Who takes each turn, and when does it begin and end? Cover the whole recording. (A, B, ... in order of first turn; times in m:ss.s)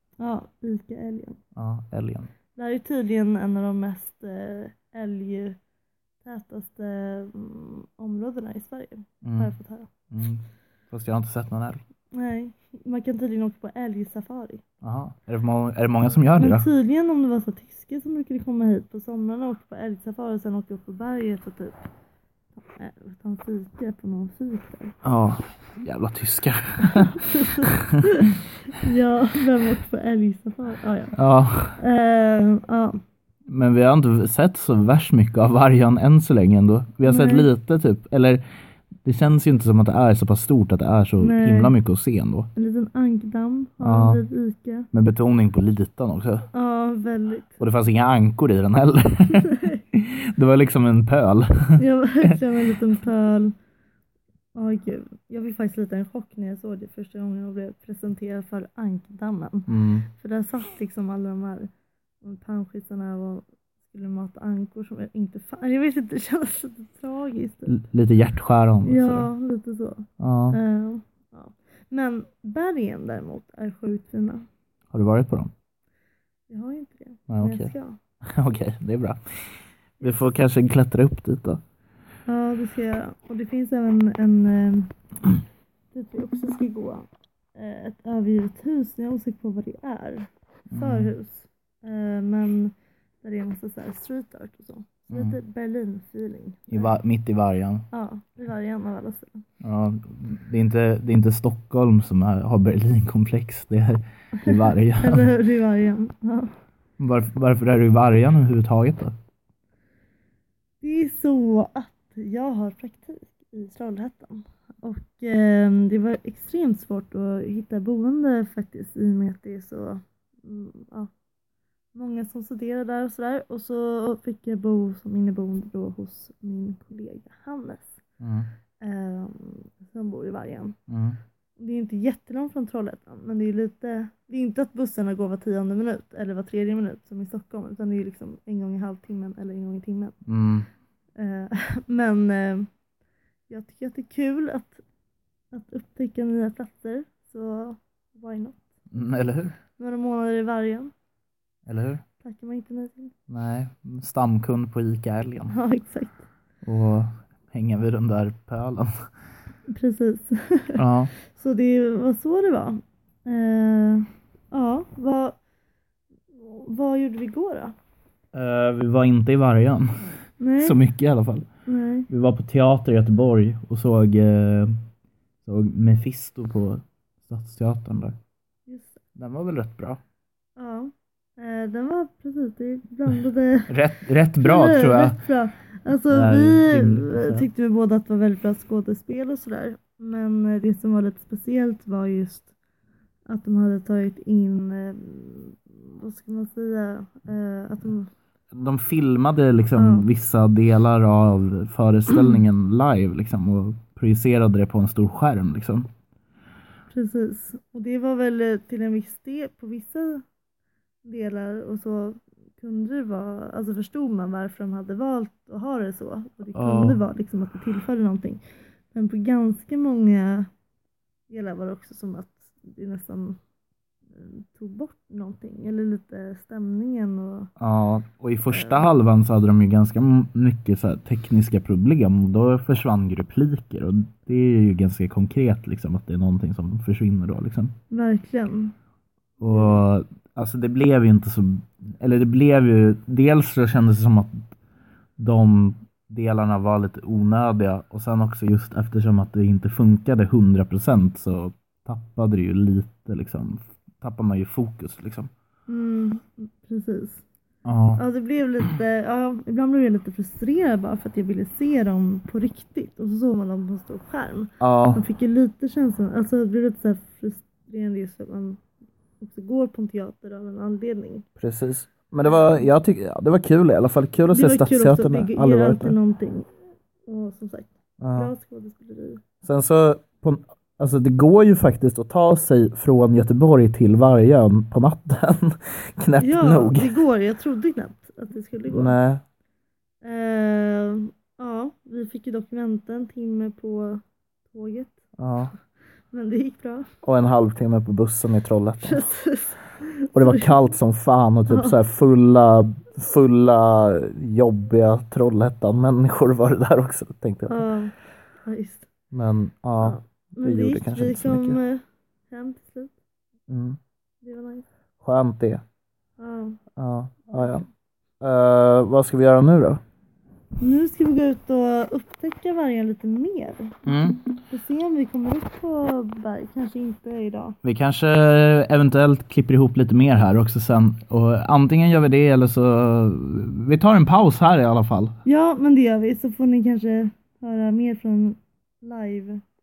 0:00.2-0:01.4 A
0:01.6-0:02.3 B
0:02.6-0:05.6 A
0:06.2-0:09.9 A
0:09.2-0:09.5 B
0:10.1-0:11.8 B
0:12.1-0:14.6 A
0:14.8-0:16.7 B
0:16.3-0:21.8 A
0:22.6-0:25.0 A
0:25.0-0:27.9 B
0:26.8-0:31.2 A
0:31.2-0:31.8 B
0:31.8-0:33.0 A
0:33.5-0:38.4 B
0:37.0-0:37.5 A
0:39.0-0:42.5 B
0:41.2-0:41.7 A
0:42.6-0:44.9 A
0:43.8-0:44.2 B
0:44.9-0:46.5 B
0:46.5-0:47.6 A
0:47.6-0:52.4 B
0:49.4-0:49.8 A
0:51.8-0:53.5 A
0:54.5-1:01.7 A
0:59.7-1:00.1 B
1:02.2-1:07.8 A
1:07.7-1:09.3 B
1:08.8-1:14.4 A
1:10.2-1:10.6 B
1:14.9-1:15.5 B
1:16.5-1:18.0 A
1:17.3-1:17.7 B
1:18.3-1:19.2 B
1:20.0-1:21.6 B
1:22.2-1:24.9 A
1:25.9-1:37.0 A
1:30.7-1:31.1 B
1:35.1-1:35.4 B
1:36.7-1:37.8 B
1:37.9-1:39.4 A
1:39.6-1:45.3 B
1:44.4-1:46.5 A
1:47.0-1:49.1 B
1:50.8-2:01.1 A
2:01.9-2:08.0 A
2:08.2-2:08.5 B
2:08.8-2:10.8 A
2:10.9-2:11.2 B
2:11.6-2:20.2 A
2:20.2-2:20.7 B
2:21.2-2:22.7 A
2:23.5-2:24.8 A
2:25.5-2:28.6 A
2:28.9-2:29.6 B
2:29.8-2:30.9 A
2:31.7-2:32.0 B
2:32.2-2:33.1 A
2:33.3-2:35.6 B
2:35.5-2:36.2 A
2:36.6-2:38.9 B
2:39.7-2:45.4 A
2:40.8-2:41.1 B
2:46.3-2:47.7 A
2:48.3-2:49.9 B
2:50.4-2:50.8 A
2:50.6-2:51.5 B
2:51.7-2:52.1 A
2:52.1-2:54.8 B
2:55.4-2:58.2 B
2:58.7-2:59.0 A
2:59.2-3:00.0 B
3:00.6-3:03.7 A
3:03.7-3:05.2 B
3:04.4-3:12.5 A
3:06.1-3:07.4 B
3:13.3-3:18.1 A
3:18.5-3:25.9 B
3:19.7-3:20.1 A
3:26.9-3:30.2 A
3:31.0-3:40.5 A
3:36.5-3:37.0 B
3:41.3-3:43.4 A
3:44.1-3:47.5 A
3:47.6-3:57.7 B
3:48.5-3:48.9 A
3:57.9-3:58.7 A
3:59.4-4:04.5 B
3:59.5-3:59.8 A
4:05.2-4:15.3 B
4:15.7-4:17.2 A
4:17.6-4:18.0 B
4:18.0-4:28.6 A
4:24.6-4:25.0 B
4:29.2-4:31.2 A
4:31.4-4:36.0 B
4:32.2-4:32.7 A
4:34.3-4:36.5 A
4:37.0-4:39.2 A
4:38.0-4:38.3 B
4:39.4-4:47.0 B
4:46.2-4:49.0 A
4:48.7-4:49.2 B
4:50.0-4:55.0 A
4:55.2-4:55.5 B
4:56.1-4:56.9 A
4:57.0-4:59.0 B
4:58.8-5:00.7 A
5:00.1-5:07.6 B
5:01.5-5:01.8 A
5:07.5-5:08.9 A
5:09.1-5:11.6 B
5:09.8-5:12.9 A
5:13.5-5:13.8 B
5:14.2-5:14.6 A
5:15.0-5:15.6 B
5:16.2-5:16.6 A
5:16.8-5:17.6 B
5:18.2-5:19.8 B
5:20.6-5:27.6 A
5:23.8-5:24.2 B
5:27.6-5:35.2 B
5:35.2-5:39.4 A